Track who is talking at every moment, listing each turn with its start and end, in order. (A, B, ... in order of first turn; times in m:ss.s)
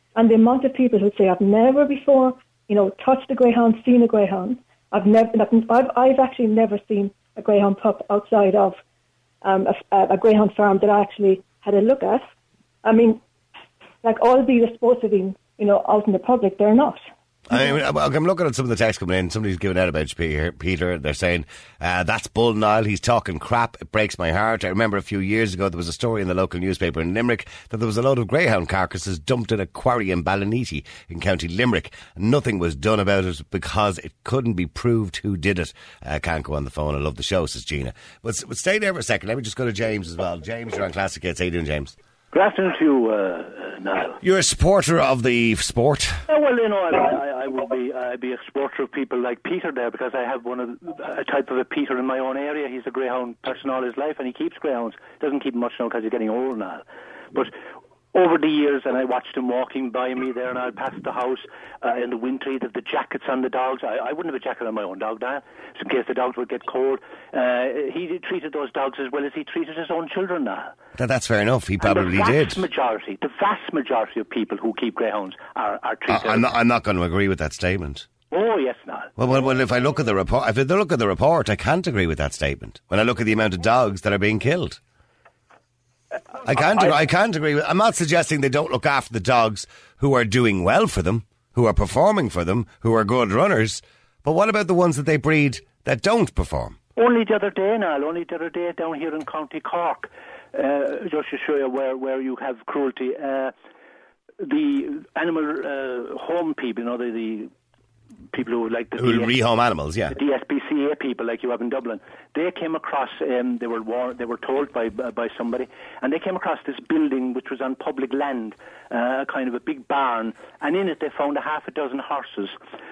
0:00.2-0:08.8 A
0:09.4-0:12.3 A
0:12.8-0:13.2 A
0:14.0-0:17.0 A
0:17.5-0:42.0 B
0:42.3-0:44.2 C
0:44.2-0:46.2 B
0:46.3-0:57.6 C
0:58.1-1:10.8 C
1:11.0-1:12.6 B
1:11.8-1:16.5 C
1:16.1-1:18.1 B
1:18.3-1:19.1 C
1:19.2-1:24.8 B
1:26.4-1:36.8 B
1:37.0-1:43.5 C
1:44.4-1:47.5 C
1:48.3-1:49.3 C
1:49.0-1:50.2 B
1:50.1-2:02.6 C